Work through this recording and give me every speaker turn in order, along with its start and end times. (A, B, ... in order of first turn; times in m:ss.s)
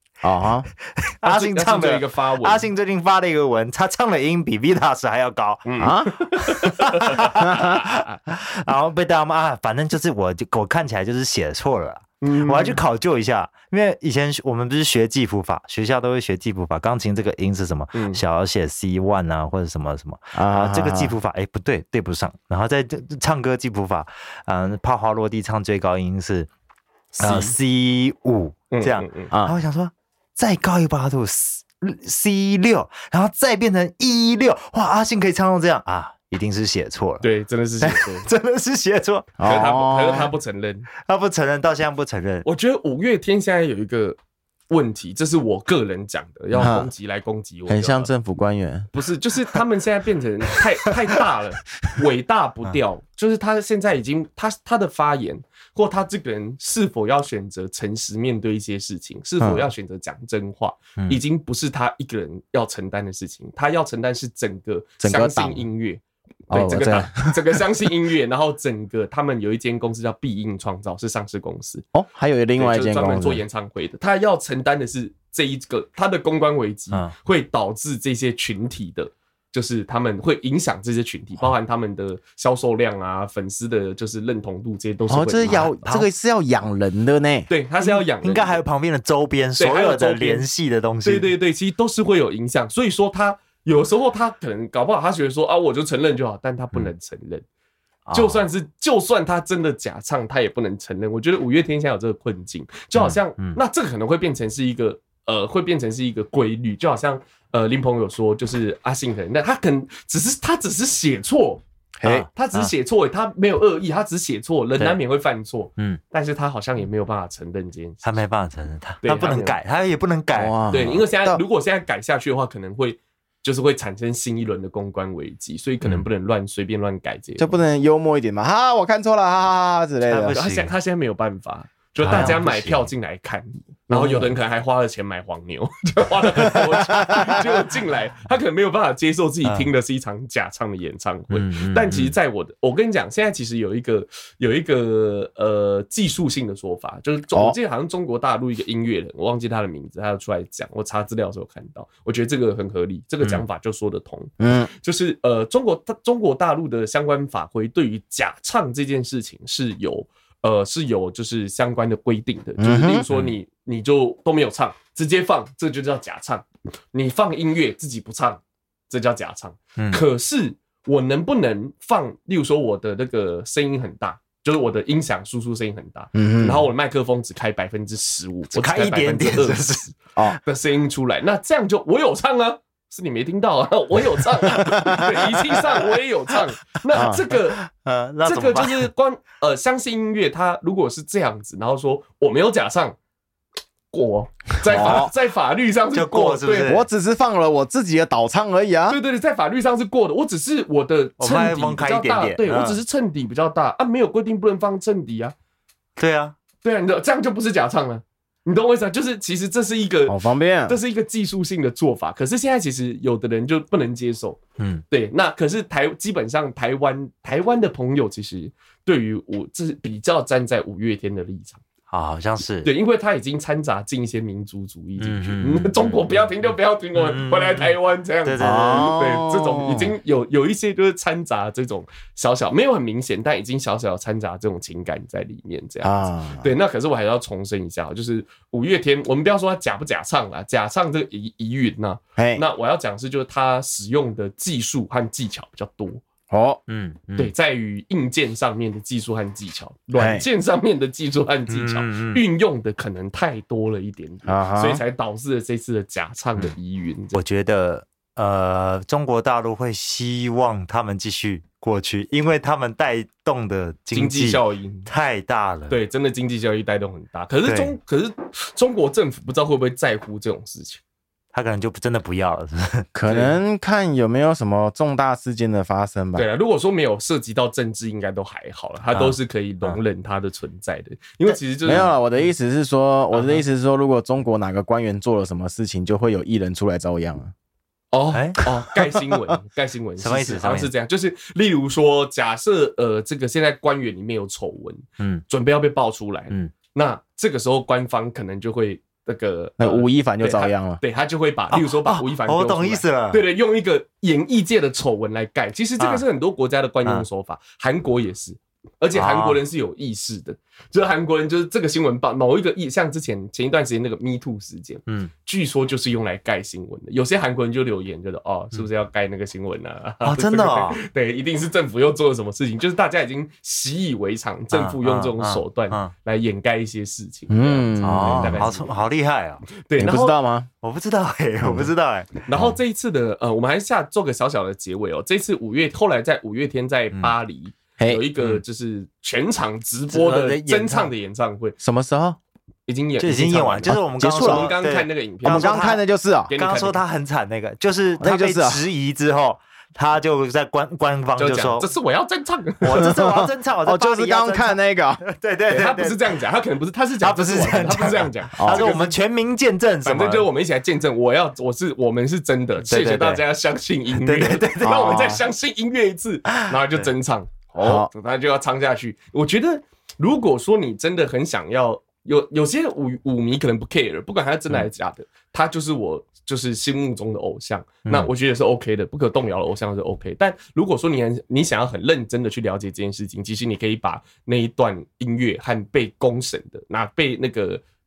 0:00.2-0:00.7 A
0:01.0-0:26.5 B
0:01.2-0:02.7 C
0:05.6-0:08.2 C
0:05.8-0:06.1 A
0:07.4-0:07.7 A
0:12.2-0:12.8 C
0:17.9-0:18.2 C
0:20.3-0:21.1 A
0:27.1-0:27.6 C
0:27.2-0:37.2 B
0:28.7-0:29.3 C
0:37.2-0:38.3 C
0:37.8-0:39.6 B
0:39.4-0:40.3 A
0:39.4-0:40.9 C
0:41.0-0:42.4 B
0:42.4-0:44.2 C
0:44.7-0:48.1 C
0:46.6-0:46.9 A
0:47.7-0:48.9 A
0:48.9-1:11.8 C
0:59.4-0:59.7 A
1:05.0-1:05.6 A
1:06.5-1:07.4 A
1:11.9-1:13.4 A
1:12.6-1:25.8 C
1:25.1-1:27.5 A
1:25.4-1:26.1 B
1:27.5-1:28.6 C
1:27.8-1:31.3 B
1:29.6-1:30.5 C
1:31.0-1:37.4 C
1:38.0-1:38.4 B
1:38.1-1:51.6 C
1:43.0-1:43.6 B
1:52.0-1:52.3 A
1:52.0-1:52.7 B
1:52.3-1:58.1 C
1:58.0-2:01.0 B
1:59.0-1:59.6 C
2:00.4-2:01.4 A
2:00.7-2:07.5 C
2:07.4-2:10.4 A
2:10.1-2:10.7 B
2:10.3-3:07.6 C
2:12.0-2:12.8 B
2:13.9-2:14.3 A
2:21.3-2:22.1 B
2:34.4-2:34.7 A
2:42.6-2:43.0 A
2:49.8-2:50.0 B
2:56.1-2:56.6 A
2:58.5-2:59.9 B
3:04.6-3:05.1 A
3:06.9-3:07.2 A
3:07.3-3:08.9 B
3:08.2-3:13.0 C
3:13.9-3:16.8 C
3:14.6-3:15.1 A
3:14.8-3:15.0 B
3:15.9-3:16.8 B
3:16.6-3:19.0 A
3:18.9-3:25.3 C
3:21.2-3:22.8 B
3:26.0-3:26.3 B
3:26.6-3:41.6 C
3:30.1-3:30.8 A
3:34.6-3:34.8 B
3:41.9-3:42.7 B
3:42.6-4:06.0 C
3:45.0-3:46.1 B
3:46.9-3:49.0 B
3:48.4-3:49.9 A
3:55.8-3:56.5 A
4:02.2-4:02.4 A
4:06.3-4:06.6 A
4:06.7-4:07.3 B
4:07.2-4:17.2 C
4:09.9-4:10.2 A
4:11.5-4:12.2 B
4:14.2-4:14.8 A
4:17.1-4:25.8 B
4:23.9-4:24.9 C
4:25.7-4:30.8 C
4:27.4-4:27.7 B
4:31.3-4:32.9 B
4:32.9-4:36.2 A
4:33.1-4:33.3 C
4:36.1-4:42.0 C
4:38.9-4:39.8 B
4:41.6-4:47.3 A
4:43.1-4:43.4 C
4:47.9-5:28.8 C
4:48.1-4:48.4 B
4:50.0-4:50.7 B
4:59.6-5:00.8 A
5:01.5-5:03.2 B
5:08.9-5:09.4 B
5:20.0-5:20.8 B
5:24.5-5:25.9 B
5:27.3-5:28.4 A
5:27.8-5:29.4 B
5:29.6-5:30.1 C
5:29.8-5:30.5 A
5:30.6-5:32.6 B
5:32.2-5:41.6 C
5:37.8-5:38.0 A
5:39.9-5:40.9 B
5:41.6-5:42.2 A
5:42.7-5:45.6 C
5:43.0-5:45.8 B
5:44.0-5:44.5 A
5:45.2-5:46.3 A
5:46.3-5:46.8 C
5:46.4-5:51.7 B
5:48.0-5:48.6 A
5:51.2-5:52.9 C
5:52.6-5:56.1 B
5:52.8-5:55.0 A
5:55.5-5:58.9 C
5:57.0-6:00.3 B
5:58.4-5:58.8 A
5:59.8-6:27.6 C
6:02.7-6:03.2 B
6:04.0-6:05.2 B
6:04.6-6:05.2 A
6:06.3-6:06.9 B
6:07.6-6:07.9 A